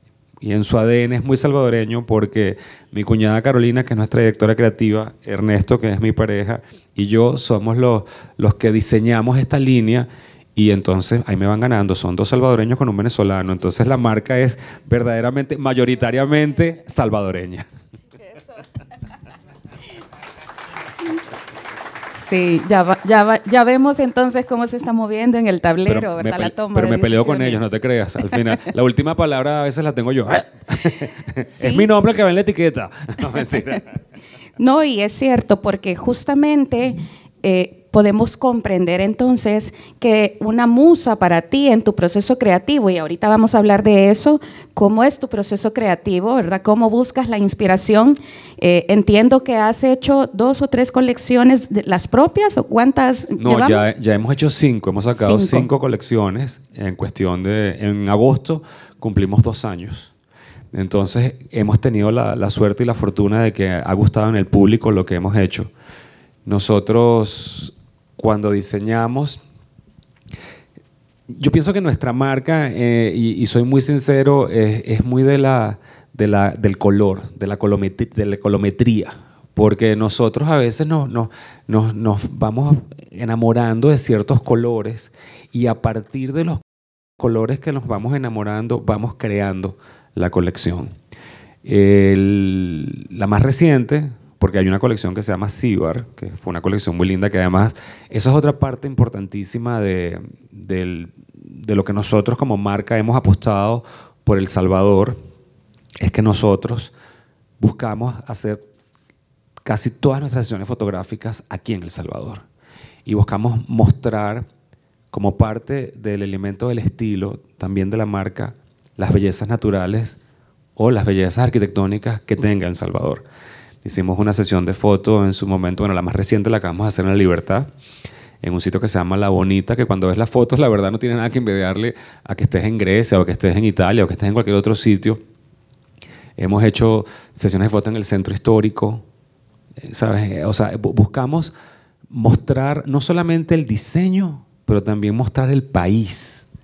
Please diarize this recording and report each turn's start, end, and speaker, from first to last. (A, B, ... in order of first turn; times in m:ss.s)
0:00.4-0:17.6 A
0:22.1-0:27.7 B
0:25.8-0:33.9 A
0:31.6-0:31.9 B
0:34.6-0:53.9 B
0:53.4-1:00.1 A
0:55.2-0:55.7 B
1:00.7-1:05.7 A
1:06.4-1:09.4 A
1:11.3-1:26.6 A
1:27.2-1:30.9 A
1:31.6-1:45.2 A
1:46.0-1:46.9 A
1:47.6-1:48.6 A
1:49.6-1:52.4 A
1:53.0-1:54.5 A
1:55.1-2:00.2 A
2:00.8-2:03.2 A
2:03.8-2:07.7 A
2:08.4-2:15.2 A
2:16.4-2:19.0 A
2:19.8-2:21.5 A
2:22.1-2:26.5 A